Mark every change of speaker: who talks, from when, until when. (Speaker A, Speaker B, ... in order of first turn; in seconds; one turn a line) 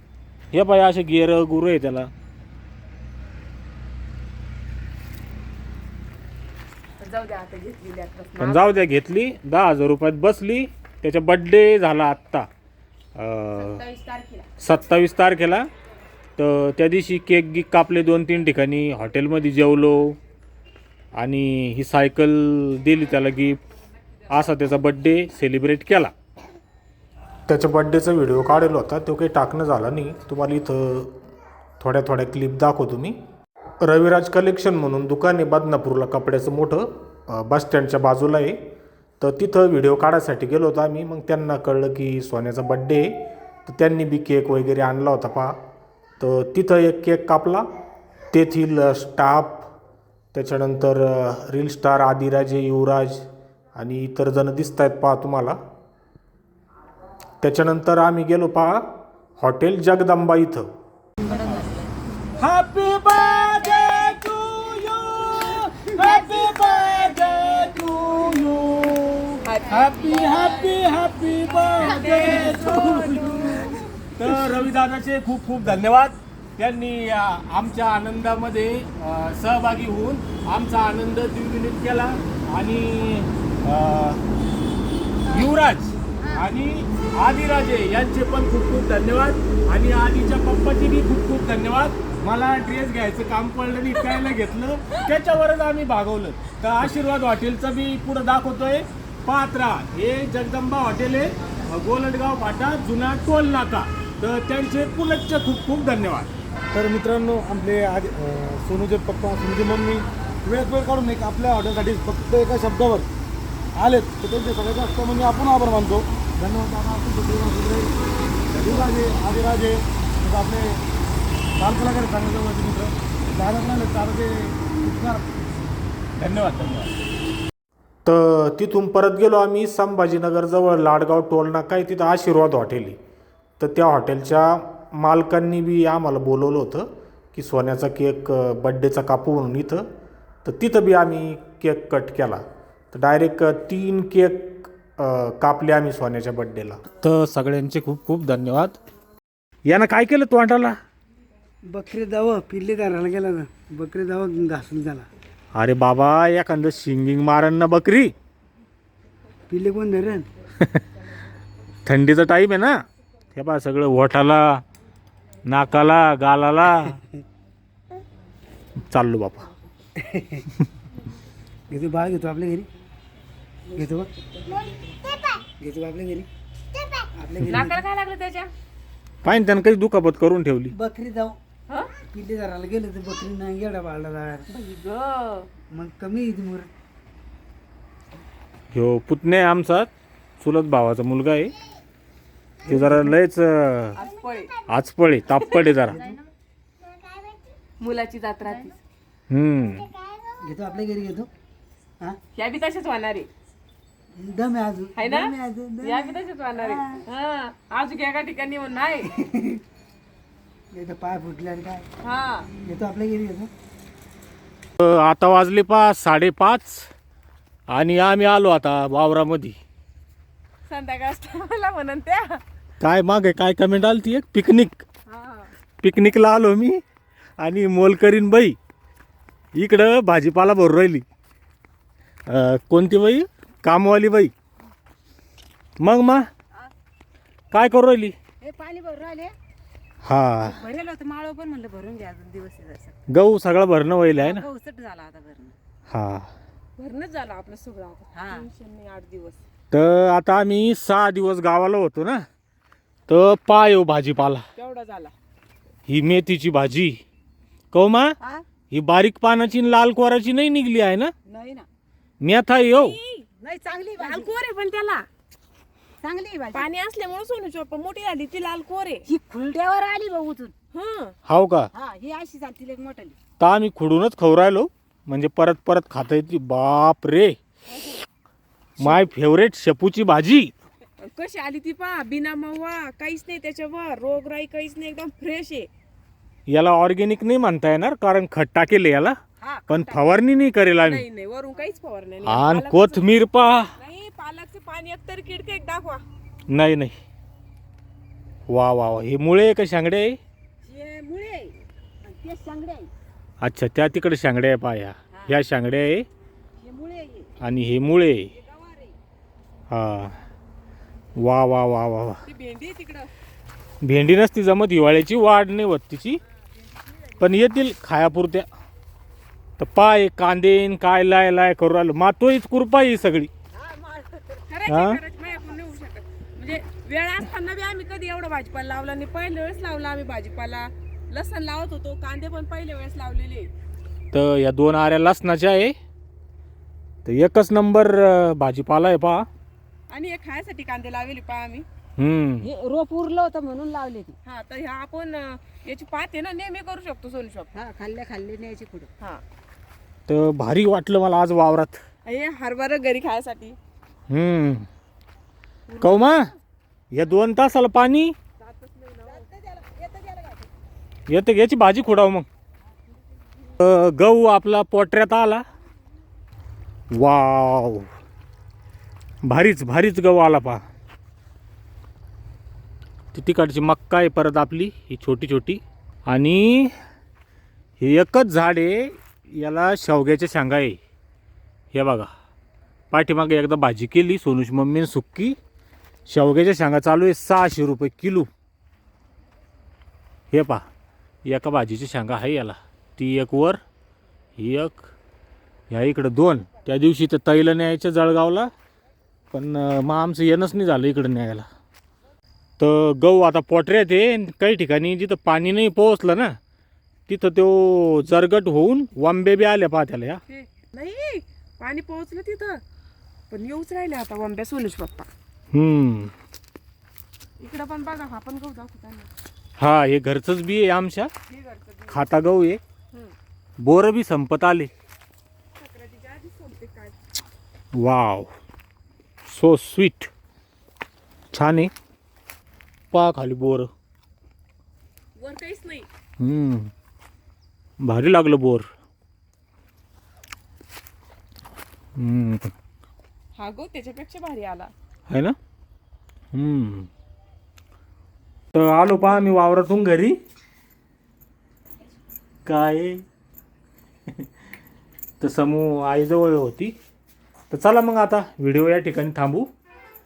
Speaker A: 0.5-2.1
Speaker B: 7.0-8.7
Speaker A: 8.4-12.5
Speaker A: 13.2-13.8
Speaker B: 13.5-14.5
Speaker A: 14.6-15.7
Speaker A: 16.4-20.2
Speaker A: 21.2-23.6
Speaker A: 24.3-26.1
Speaker A: 27.5-31.2
Speaker A: 31.8-33.2
Speaker A: 33.8-38.6
Speaker A: 39.2-43.1
Speaker A: 43.7-45.5
Speaker A: 46.2-47.7
Speaker A: 48.3-49.7
Speaker A: 50.3-55.6
Speaker A: 57.4-58.8
Speaker A: 59.4-60.7
Speaker C: 61.2-61.9
Speaker A: 61.4-61.7
Speaker A: 62.4-84.2
Speaker B: 69.4-70.5
Speaker B: 71.7-73.9
Speaker A: 85.3-106.3
Speaker D: 106.7-113.1
Speaker D: 113.8-117.9
Speaker D: 118.5-120.8
Speaker D: 121.6-125.3
Speaker A: 126.2-126.9
Speaker A: 128.1-133.0
Speaker A: 133.6-139.8
Speaker A: 140.4-148.8
Speaker A: 149.7-150.8
Speaker E: 151.7-155.1
Speaker A: 155.5-158.1
Speaker E: 159.5-160.3
Speaker A: 161.8-162.7
Speaker A: 163.3-164.6
Speaker A: 165.5-167.0
Speaker A: 168.8-169.5
Speaker E: 170.0-170.5
Speaker E: 171.7-172.7
Speaker B: 173.7-175.1
Speaker E: 173.8-174.1
Speaker E: 175.6-176.3
Speaker E: 177.2-177.8
Speaker B: 177.4-178.5
Speaker A: 179.2-180.8
Speaker E: 180.7-181.4
Speaker E: 182.1-184.5
Speaker B: 184.5-185.5
Speaker E: 185.7-186.7
Speaker A: 188.7-191.5
Speaker A: 192.6-194.0
Speaker E: 192.7-193.1
Speaker B: 194.0-194.6
Speaker A: 194.7-196.0
Speaker B: 195.3-196.2
Speaker B: 197.8-198.8
Speaker A: 199.3-199.9
Speaker E: 200.4-201.3
Speaker B: 202.4-203.3
Speaker E: 204.2-207.0
Speaker B: 204.9-209.1
Speaker E: 209.2-209.6
Speaker E: 210.7-211.9
Speaker B: 212.0-212.5
Speaker E: 212.6-213.5
Speaker A: 214.8-216.9
Speaker A: 217.7-219.6
Speaker B: 220.7-222.4
Speaker A: 222.8-224.8
Speaker B: 225.1-225.5
Speaker A: 225.8-226.8
Speaker A: 227.4-228.6
Speaker A: 229.6-231.0
Speaker A: 232.3-234.3
Speaker A: 235.8-236.3
Speaker A: 237.5-238.2
Speaker C: 238.4-239.3
Speaker A: 240.0-240.6
Speaker C: 240.4-243.0
Speaker A: 243.1-244.5
Speaker C: 244.2-245.6
Speaker A: 245.9-246.3
Speaker B: 246.8-249.4
Speaker C: 248.2-248.5
Speaker A: 249.7-252.2
Speaker A: 253.1-254.4
Speaker B: 254.6-255.1
Speaker A: 255.9-257.0
Speaker A: 257.7-258.2
Speaker A: 258.7-261.1
Speaker C: 261.3-261.7
Speaker A: 262.2-263.0
Speaker B: 262.7-263.3
Speaker C: 263.4-264.3
Speaker B: 264.0-265.1
Speaker C: 266.0-266.7
Speaker B: 266.5-269.1
Speaker C: 269.1-270.5
Speaker B: 270.7-271.2
Speaker A: 271.3-271.7
Speaker C: 271.7-273.1
Speaker A: 273.4-277.4
Speaker A: 278.8-280.5
Speaker B: 281.0-285.7
Speaker A: 286.5-289.2
Speaker C: 289.4-290.0
Speaker A: 289.7-291.0
Speaker B: 290.8-293.1
Speaker A: 292.2-293.7
Speaker B: 293.8-296.0
Speaker A: 296.5-296.9
Speaker A: 298.5-300.2
Speaker C: 300.6-302.9
Speaker A: 303.4-306.1
Speaker C: 306.6-307.3
Speaker A: 307.4-308.3
Speaker C: 308.4-308.9
Speaker A: 309.7-310.1
Speaker A: 311.2-312.2
Speaker B: 312.3-313.1
Speaker A: 313.8-316.2
Speaker C: 316.9-317.3
Speaker A: 317.2-318.5
Speaker A: 319.6-323.3
Speaker C: 323.6-324.4
Speaker B: 324.5-333.5
Speaker A: 324.7-325.0
Speaker A: 334.1-335.8
Speaker A: 337.1-339.3
Speaker B: 339.9-341.7
Speaker A: 342.0-342.5
Speaker C: 342.4-344.1
Speaker B: 344.2-347.5
Speaker C: 347.5-348.9
Speaker A: 350.1-351.8
Speaker B: 352.1-353.6
Speaker A: 354.1-354.7
Speaker B: 355.7-356.0
Speaker A: 355.8-356.3
Speaker A: 356.9-358.1
Speaker B: 358.4-359.3
Speaker C: 359.1-360.5
Speaker A: 361.1-362.3
Speaker A: 363.6-365.4
Speaker A: 366.9-367.9
Speaker A: 369.2-370.6
Speaker A: 373.1-376.7
Speaker A: 377.8-380.8
Speaker A: 381.7-382.1
Speaker A: 382.9-385.4
Speaker A: 386.1-388.3
Speaker A: 390.3-390.6
Speaker A: 391.2-393.6
Speaker A: 394.4-394.9
Speaker A: 395.7-398.5
Speaker A: 399.3-401.5
Speaker A: 402.6-406.4
Speaker A: 407.1-410.2
Speaker B: 410.3-412.6
Speaker B: 413.3-415.1
Speaker A: 415.5-416.1
Speaker B: 417.4-419.1
Speaker A: 419.6-421.1
Speaker B: 421.3-422.1
Speaker A: 421.9-422.6
Speaker A: 423.6-424.7
Speaker B: 425.6-427.0
Speaker A: 427.8-428.3
Speaker A: 429.3-430.1
Speaker A: 431.3-431.7
Speaker A: 432.9-433.7
Speaker B: 435.2-435.9
Speaker A: 436.2-436.7
Speaker A: 437.8-438.7
Speaker A: 442.0-442.5
Speaker B: 443.4-444.7
Speaker A: 445.1-445.4
Speaker A: 446.3-446.9
Speaker A: 448.5-450.2
Speaker A: 452.4-453.0
Speaker A: 455.2-456.8
Speaker A: 457.5-459.5